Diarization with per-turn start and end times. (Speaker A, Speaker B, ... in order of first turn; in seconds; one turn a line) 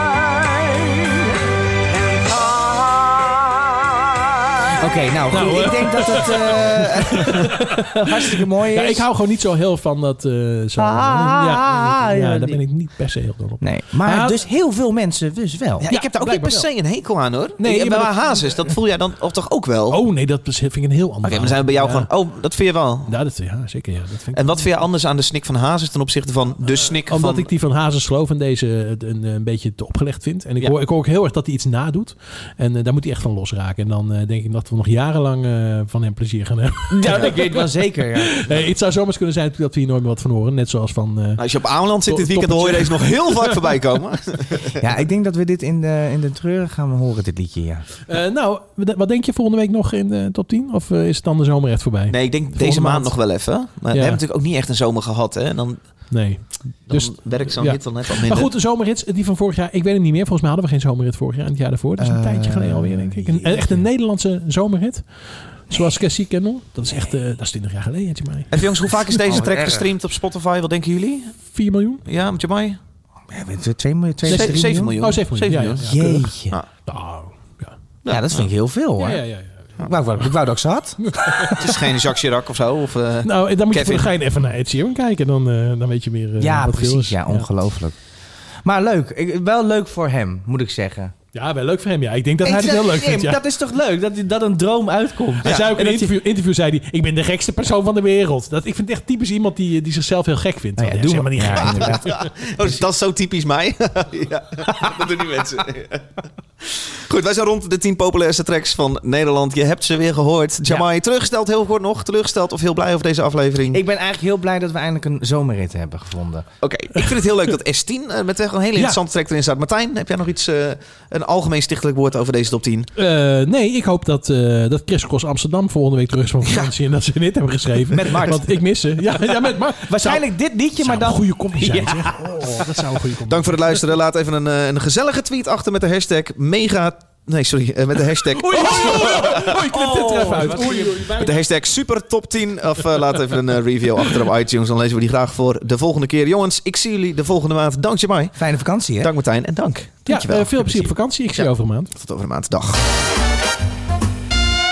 Speaker A: 4.8-9.1
Speaker B: 5.3-14.4
Speaker A: 10.8-12.6
Speaker A: 13.6-15.9
Speaker C: 15.8-20.0
Speaker B: 15.9-16.7
Speaker B: 17.6-18.7
Speaker B: 19.9-22.1
Speaker C: 21.2-23.1
Speaker B: 23.1-24.7
Speaker C: 24.3-27.5
Speaker B: 27.1-41.4
Speaker A: 36.9-38.6
Speaker C: 41.4-44.8
Speaker B: 42.1-43.6
Speaker A: 44.8-47.9
Speaker B: 48.1-53.2
Speaker C: 52.1-56.1
Speaker B: 53.9-54.2
Speaker B: 56.1-65.1
Speaker C: 56.9-58.5
Speaker A: 62.0-63.9
Speaker B: 65.7-69.2
Speaker C: 68.5-71.4
Speaker A: 69.2-69.9
Speaker B: 71.5-72.0
Speaker C: 72.0-72.8
Speaker A: 73.3-75.0
Speaker B: 74.3-76.3
Speaker C: 74.3-76.0
Speaker A: 75.8-76.6
Speaker B: 76.9-77.8
Speaker C: 78.0-78.5
Speaker A: 78.1-79.2
Speaker B: 79.0-79.7
Speaker A: 79.8-81.6
Speaker B: 81.1-81.5
Speaker C: 81.6-84.1
Speaker B: 83.2-87.5
Speaker A: 86.4-88.0
Speaker A: 88.6-91.1
Speaker B: 91.3-93.4
Speaker A: 92.4-96.1
Speaker B: 95.4-102.2
Speaker C: 95.4-95.8
Speaker A: 100.8-102.8
Speaker C: 101.8-113.8
Speaker A: 113.7-116.5
Speaker C: 116.6-122.9
Speaker B: 123.0-130.3
Speaker A: 127.9-132.5
Speaker B: 130.8-133.8
Speaker C: 133.3-139.6
Speaker B: 138.3-141.3
Speaker A: 138.9-141.1
Speaker C: 141.1-148.4
Speaker A: 148.4-149.1
Speaker C: 149.0-152.8
Speaker B: 150.1-151.9